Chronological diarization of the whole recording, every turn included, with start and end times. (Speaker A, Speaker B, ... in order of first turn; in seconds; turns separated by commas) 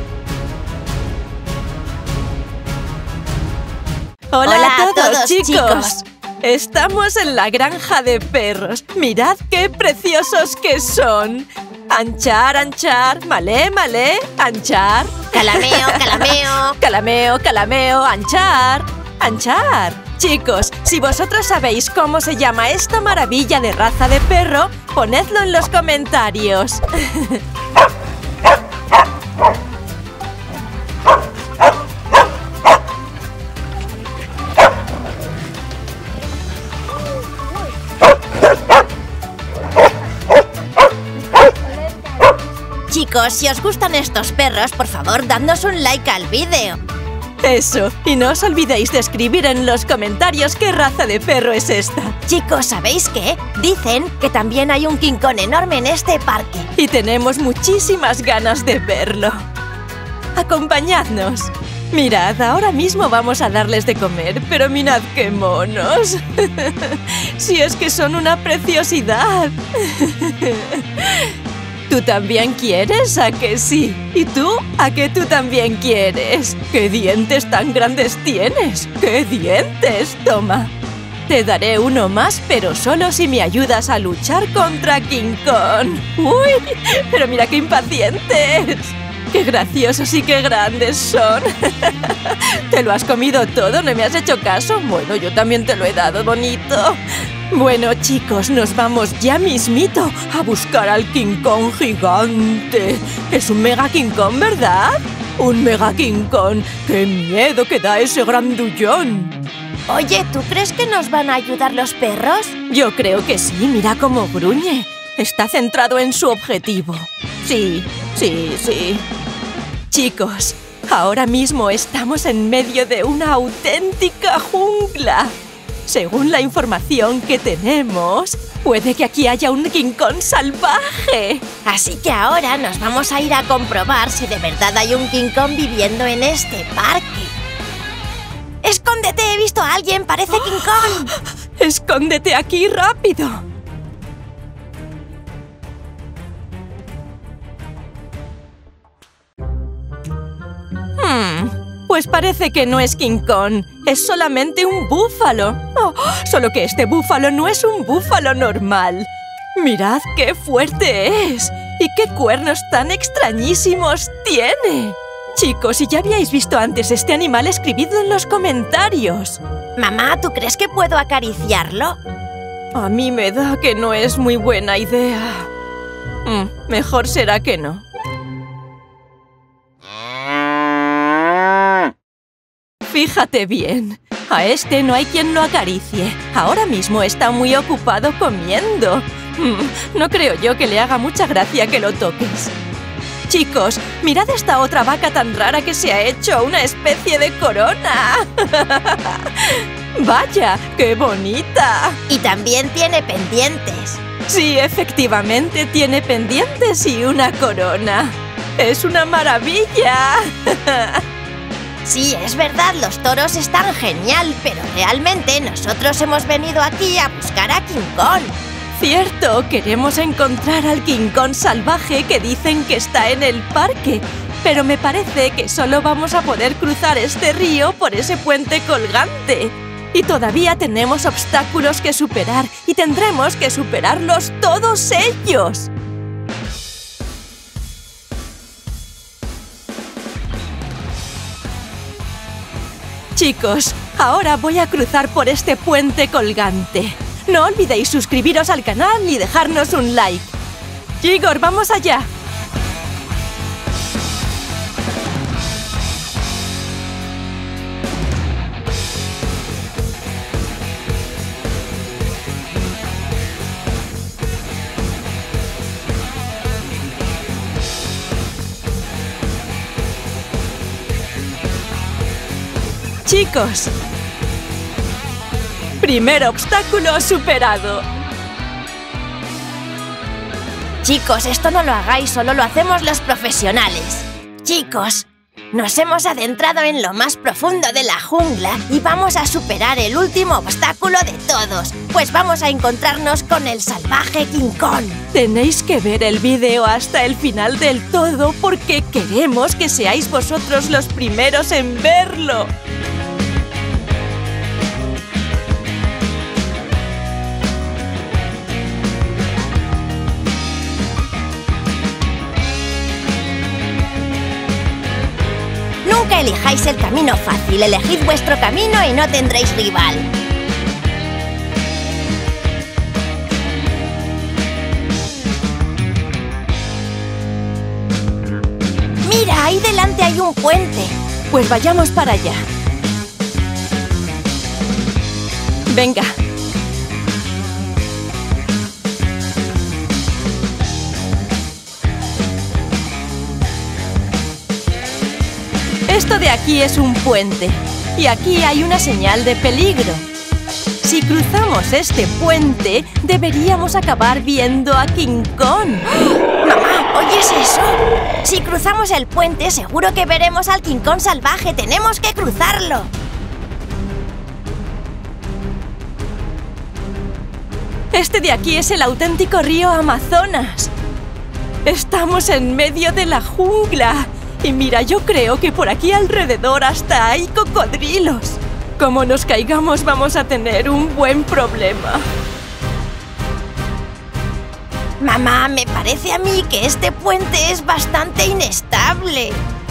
Speaker A: 4.3-27.4, Speaker B: 4.4-6.0, Speaker B: 15.3-16.8, Speaker B: 42.9-46.8, Speaker A: 47.4-52.1, Speaker B: 52.3-56.7, Speaker A: 56.8-59.4, Speaker A: 60.3-71.3, Speaker A: 71.9-80.7, Speaker A: 81.3-97.0, Speaker A: 97.5-109.4, Speaker B: 109.9-112.6, Speaker A: 112.7-119.0, Speaker A: 119.9-125.3, Speaker A: 125.9-131.4, Speaker B: 131.6-137.3, Speaker B: 138.6-141.1, Speaker A: 140.3-143.4, Speaker A: 151.0-169.4, Speaker B: 169.8-172.0, Speaker A: 172.7-175.5, Speaker A: 176.2-177.8, Speaker A: 182.9-192.5, Speaker A: 193.3-202.0, Speaker B: 202.1-204.0, Speaker A: 204.3-211.0, Speaker B: 211.8-218.3, Speaker A: 218.8-235.7, Speaker A: 243.2-250.3, Speaker A: 251.0-252.1, Speaker A: 273.0-273.7, Speaker A: 275.8-277.8, Speaker B: 280.8-295.0, Speaker A: 295.1-302.5, Speaker B: 315.8-320.1, Speaker B: 329.0-330.9, Speaker A: 331.3-332.4, Speaker A: 335.7-336.1, Speaker A: 345.9-350.1, Speaker A: 350.8-356.1, Speaker B: 356.4-362.9, Speaker A: 367.9-370.7, Speaker A: 371.6-382.0, Speaker B: 385.0-389.4